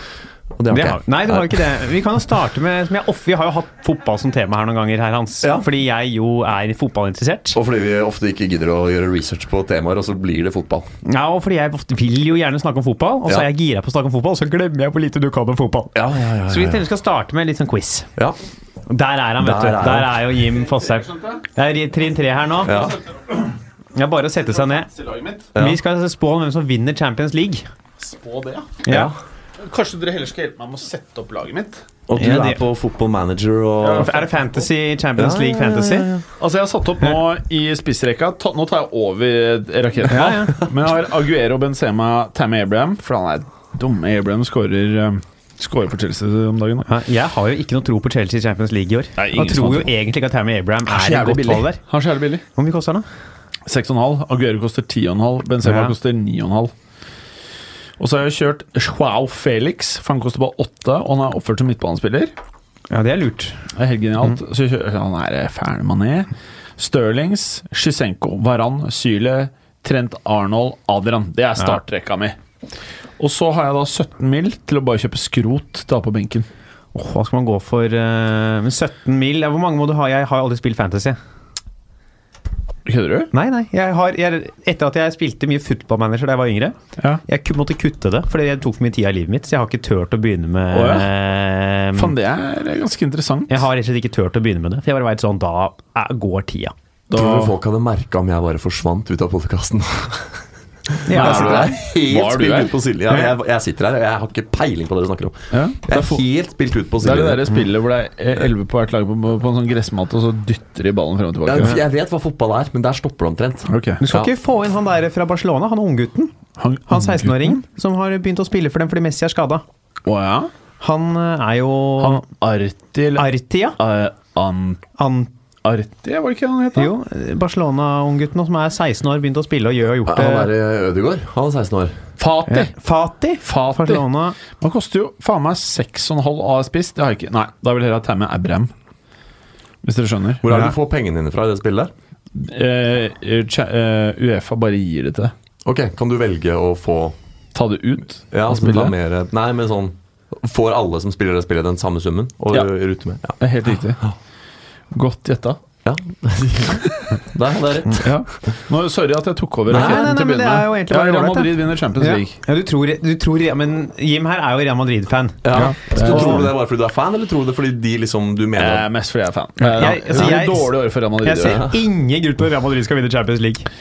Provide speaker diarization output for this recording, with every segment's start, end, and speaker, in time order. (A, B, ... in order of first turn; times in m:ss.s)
0:00.6-0:01.7 A
0:00.7-0:07.6 B
0:07.5-0:10.9 A
0:11.0-0:15.9 B
0:15.9-0:16.8 A
0:16.5-0:18.1 B
0:18.9-0:22.9 B
0:19.4-0:20.3 A
0:20.6-0:21.4 C
0:22.6-0:23.0 A
0:22.7-0:23.3 C
0:23.9-0:24.9 B
0:24.7-0:25.5 C
0:25.6-0:27.6 B
0:28.0-0:28.8 C
0:28.8-0:29.1 B
0:28.9-0:29.2 A
0:29.6-0:31.8 C
0:32.1-0:34.2 A
0:32.2-0:32.6 B
0:33.8-0:34.3 C
0:34.0-0:36.1 B
0:35.2-0:36.2 A
0:36.4-0:46.9 C
0:40.1-0:40.6 B
0:46.8-0:51.8 B
0:49.2-0:49.9 C
0:50.9-0:52.4 C
0:52.5-0:53.0 B
0:53.6-0:56.7 C
0:55.6-0:55.9 B
0:58.0-1:02.3 C
1:02.9-1:03.6 B
1:03.8-1:12.4 C
1:13.2-1:16.4 C
1:16.9-1:21.2 B
1:22.8-1:23.3 C
1:23.3-1:32.1 B
1:30.7-1:31.1 C
1:32.0-1:33.6 C
1:33.5-1:36.7 B
1:37.1-1:37.5 C
1:37.1-1:47.5 A
1:41.0-1:41.7 B
1:41.1-1:42.8 C
1:45.5-1:46.2 C
1:47.0-1:51.8 C
1:51.4-1:54.3 A
1:53.7-1:54.0 C
1:54.0-1:56.3 B
1:56.6-1:57.6 C
1:56.9-1:59.6 B
2:00.0-2:00.5 C
2:00.8-2:02.2 B
2:02.0-2:04.8 C
2:03.2-2:03.8 B
2:05.0-2:05.3 B
2:05.6-2:06.9 C
2:06.7-2:10.5 B
2:10.1-2:12.0 A
2:12.2-2:12.7 C
2:12.5-2:14.4 B
2:13.4-2:18.7 C
2:19.8-2:20.5 C
2:20.4-2:21.9 A
2:22.3-2:25.3 C
2:25.6-2:27.2 A
2:27.5-2:28.9 C
2:28.3-2:33.4 A
2:33.3-2:34.1 C
2:34.9-2:35.6 C
2:35.8-2:38.1 A
2:38.0-2:42.4 C
2:39.7-2:40.1 A
2:39.7-2:46.4 B
2:45.4-2:48.9 A
2:45.5-2:46.5 C
2:48.6-2:51.7 C
2:49.6-2:53.7 B